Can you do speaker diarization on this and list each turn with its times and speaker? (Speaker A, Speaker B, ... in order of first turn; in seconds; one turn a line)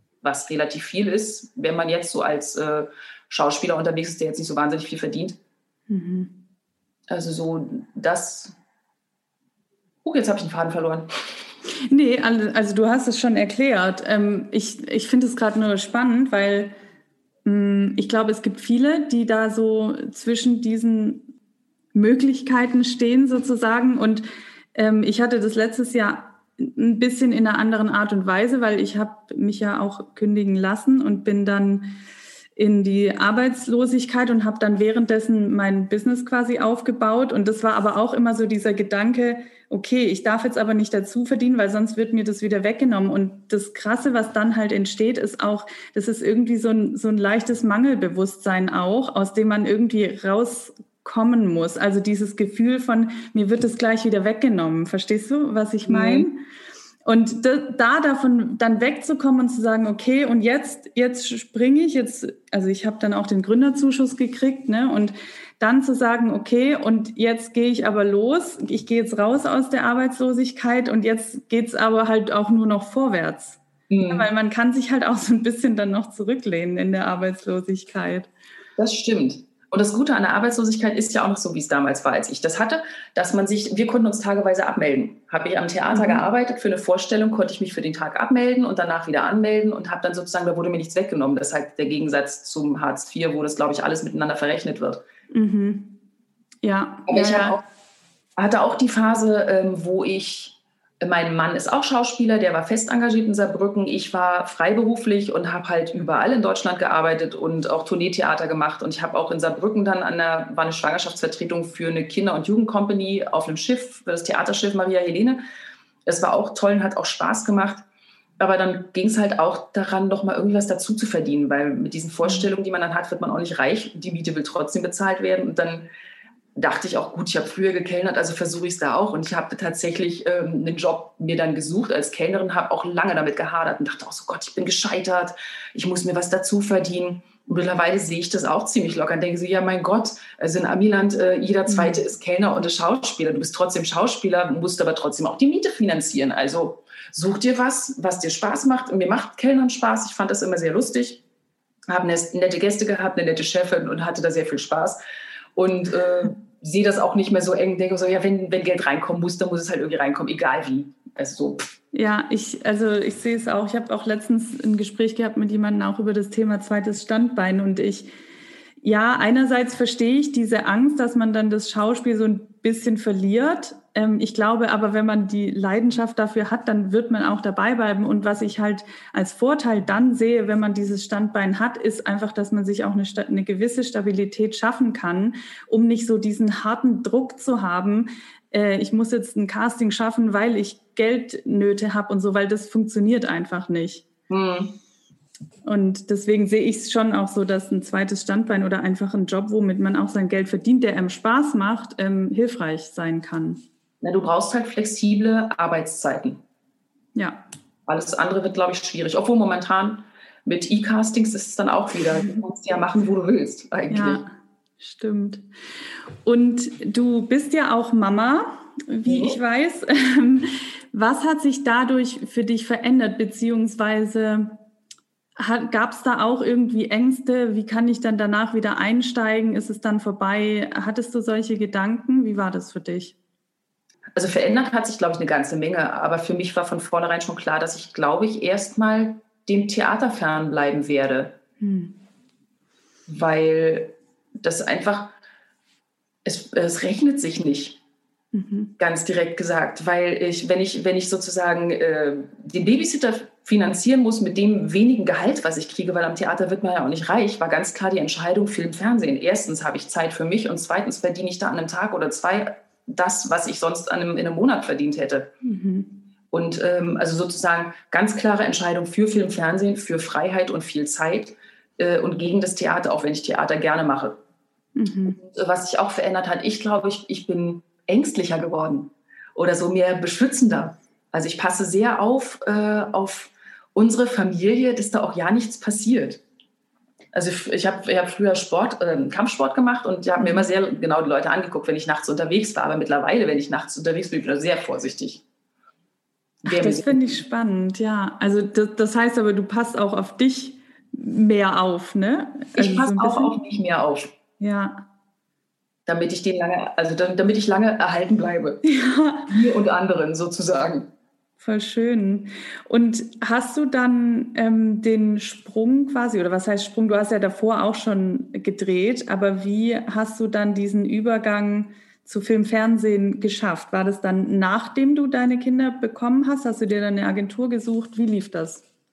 Speaker A: 0.2-5.4
Speaker B: 5.9-6.4
Speaker A: 7.1-8.6
Speaker A: 10.0-11.1
Speaker B: 11.9-16.7
Speaker B: 17.4-21.3
Speaker B: 21.9-31.9
Speaker B: 32.6-56.4
Speaker A: 55.9-56.3
Speaker B: 57.0-78.3
Speaker A: 73.9-74.3
Speaker A: 78.8-95.0
Speaker B: 85.9-86.3
Speaker B: 95.3-96.0
Speaker B: 96.6-97.6
Speaker A: 97.1-97.6
Speaker A: 98.4-115.4
Speaker A: 116.1-117.8
Speaker A: 118.4-125.9
Speaker B: 122.2-122.5
Speaker A: 126.5-151.2
Speaker B: 141.7-142.0
Speaker A: 151.9-155.0
Speaker A: 155.6-161.8
Speaker B: 161.9-168.1
Speaker B: 168.8-194.1
Speaker A: 194.3-194.8
Speaker B: 195.7-203.6
Speaker A: 204.0-206.4
Speaker B: 207.2-207.4
Speaker A: 207.9-214.2
Speaker B: 212.2-212.4
Speaker B: 213.9-215.5
Speaker B: 216.2-224.6
Speaker A: 219.1-219.4
Speaker B: 225.4-233.2
Speaker A: 234.2-241.4
Speaker B: 241.6-242.0
Speaker A: 243.1-245.1
Speaker A: 246.2-247.8
Speaker B: 248.3-248.7
Speaker A: 248.8-265.3
Speaker B: 265.4-266.0
Speaker A: 266.3-274.2
Speaker B: 274.8-275.2
Speaker A: 275.1-286.2
Speaker A: 287.1-295.2
Speaker B: 290.2-290.5
Speaker A: 296.4-297.2
Speaker B: 296.5-303.4
Speaker A: 302.6-304.1
Speaker B: 304.4-304.9
Speaker A: 305.9-308.6
Speaker B: 308.6-309.4
Speaker A: 309.3-310.9
Speaker B: 311.4-328.6